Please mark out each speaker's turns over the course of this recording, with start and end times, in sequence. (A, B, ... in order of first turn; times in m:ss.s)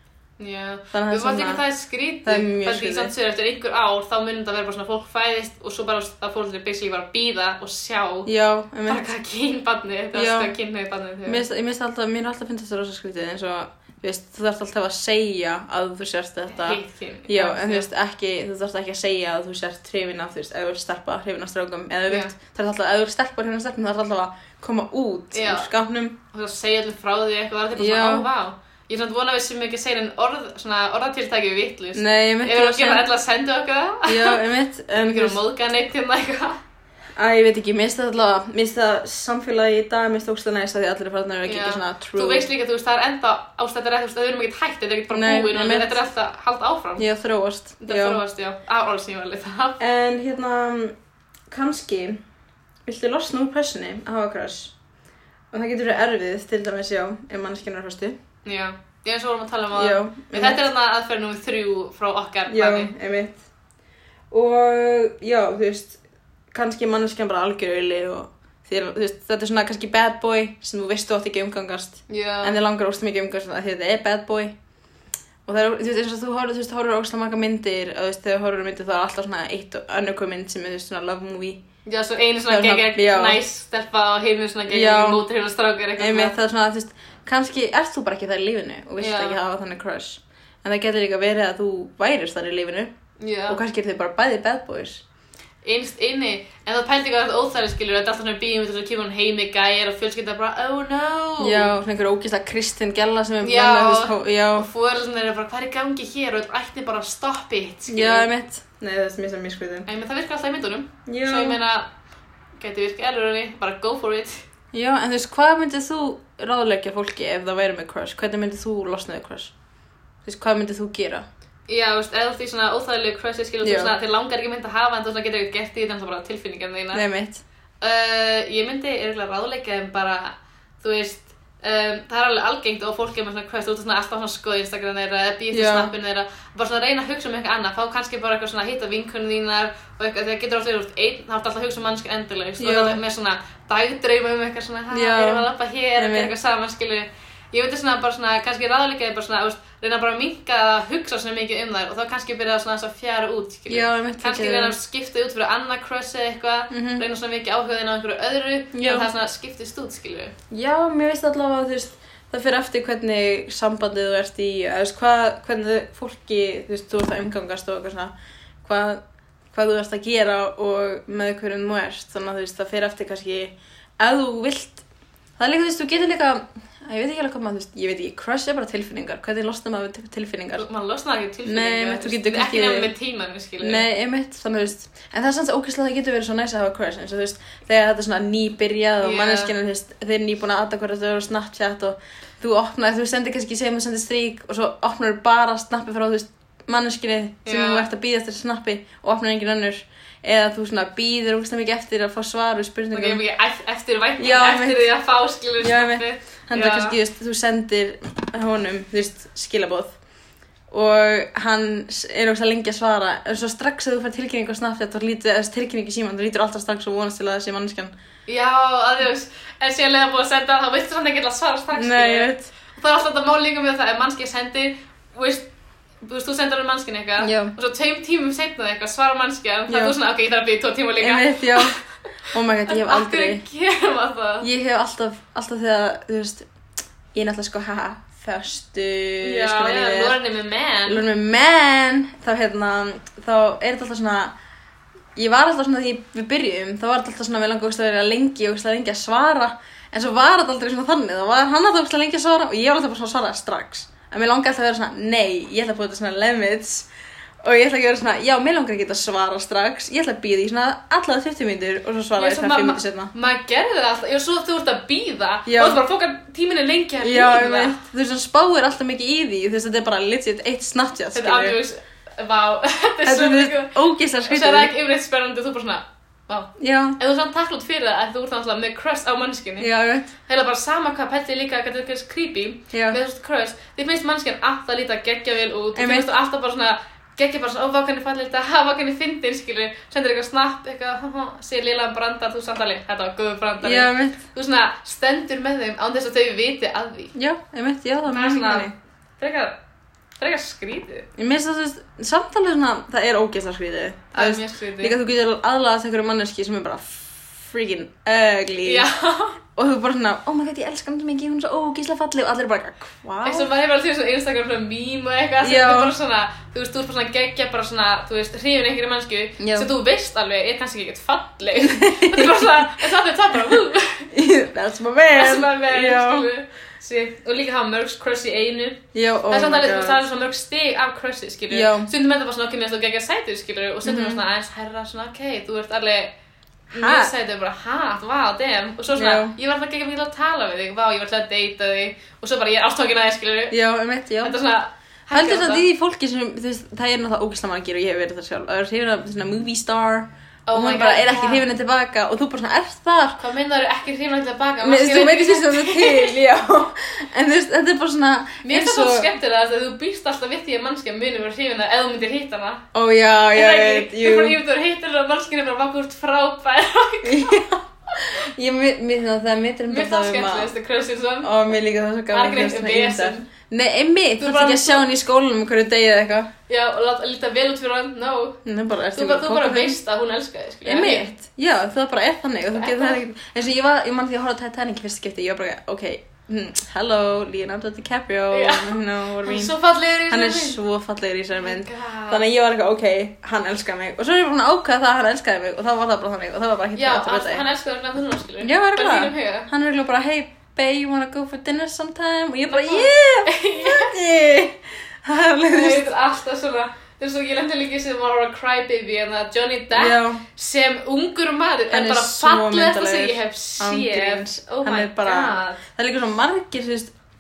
0:00.4-0:08.3 A
0:00.9-0:01.6 B
0:02.2-0:03.1 B
0:08.2-0:09.1 B
0:08.9-0:11.4 A
0:10.1-0:10.5 B
0:11.2-0:26.2 B
0:16.5-0:17.9 A
0:22.1-0:22.3 A
0:25.3-0:25.7 A
0:26.3-0:34.4 A
0:27.8-0:28.3 B
0:31.9-0:33.0 B
0:34.0-0:35.4 B
0:35.0-0:36.6 A
0:37.2-0:42.5 B
0:41.4-0:47.0 A
0:45.1-0:46.0 B
0:47.0-0:48.2 B
0:47.8-0:49.8 A
0:49.8-0:50.9 B
0:51.5-0:52.2 B
0:52.8-0:54.7 B
0:55.5-0:58.2 B
0:58.4-1:02.9 A
0:59.7-1:00.6 B
1:02.5-1:03.4 B
1:04.3-1:06.0 B
1:06.5-1:14.5 B
1:12.1-1:12.6 A
1:15.4-1:21.6 B
1:21.8-1:26.4 A
1:22.5-1:23.4 B
1:24.7-1:25.2 B
1:26.0-1:32.9 B
1:29.0-1:29.4 A
1:33.2-1:33.6 A
1:33.5-1:35.0 B
1:35.6-1:41.7 A
1:41.4-1:44.7 B
1:43.4-1:48.3 A
1:47.9-1:49.9 B
1:49.9-1:51.9 A
1:51.0-1:51.6 B
1:52.6-1:54.4 A
1:54.7-1:59.5 B
2:00.2-2:01.2 B
2:01.7-2:07.0 A
2:03.6-2:03.9 B
2:06.9-2:07.4 B
2:07.8-2:40.3 A
2:15.5-2:15.9 B
2:22.6-2:23.0 B
2:24.9-2:26.3 B
2:33.7-2:34.8 B
2:36.7-2:37.0 B
2:38.7-2:39.1 B
2:40.5-2:48.1 B
2:48.6-2:49.0 B
2:49.5-2:54.8 B
2:55.4-3:00.6 B
3:00.6-3:03.9 A
3:01.4-3:02.9 B
3:03.6-3:23.2 B
3:09.0-3:09.5 A
3:17.4-3:17.9 A
3:22.9-3:27.0 A
3:24.2-3:24.9 B
3:25.6-3:29.9 B
3:30.7-3:37.9 B
3:38.3-3:45.4 A
3:41.7-3:42.5 B
3:46.0-3:51.8 A
3:47.2-3:47.5 B
3:49.7-3:50.0 B
3:51.0-3:51.8 B
3:52.3-3:53.4 B
3:52.7-3:54.5 A
3:54.4-3:56.4 B
3:57.1-4:00.2 B
3:59.2-4:01.0 A
4:00.8-4:04.3 B
4:05.2-4:16.9 B
4:17.4-4:23.1 B
4:22.2-4:27.8 A
4:25.5-4:25.8 B
4:27.0-4:31.6 B
4:31.1-4:39.7 A
4:33.0-4:34.7 B
4:36.6-4:37.0 B
4:39.6-4:40.1 B
4:40.2-4:57.1 A
4:42.7-4:43.0 B
4:45.7-4:46.1 B
4:53.6-4:54.2 B
4:57.1-4:58.7 B
4:58.1-4:59.6 A
5:00.2-5:01.1 A
5:01.2-5:08.9 B
5:04.1-5:05.0 A
5:08.6-5:09.4 A
5:09.6-5:13.5 B
5:13.2-5:24.1 A
5:15.4-5:15.9 B
5:19.4-5:19.7 B
5:21.6-5:22.6 B
5:24.1-5:26.3 B
5:25.1-5:36.1 A
5:28.9-5:30.0 B
5:31.5-5:31.9 B
5:33.8-5:34.2 B
5:36.7-5:37.1 B
5:36.7-5:43.6 A
5:38.9-5:39.3 B
5:43.5-5:44.4 B
5:44.2-5:45.6 A
5:45.1-5:53.2 B
5:50.5-5:51.4 A
5:53.2-5:56.1 A
5:54.6-5:59.1 B
5:58.4-6:02.6 A
6:02.7-6:04.4 B
6:03.3-6:07.5 A
6:07.0-6:10.5 B
6:09.7-6:11.3 A
6:11.2-6:16.3 B
6:12.1-6:13.3 A
6:14.2-6:14.9 A
6:16.5-6:18.4 A
6:18.4-6:19.8 B
6:18.9-6:21.1 A
6:20.6-6:29.5 B
6:22.5-6:23.0 A
6:28.3-6:30.6 A
6:30.1-6:37.4 B
6:31.3-6:32.2 A
6:36.8-6:39.5 A
6:38.4-6:45.8 B
6:42.5-6:44.0 A
6:45.5-6:55.6 A
6:49.7-6:50.2 B
6:51.7-6:56.9 B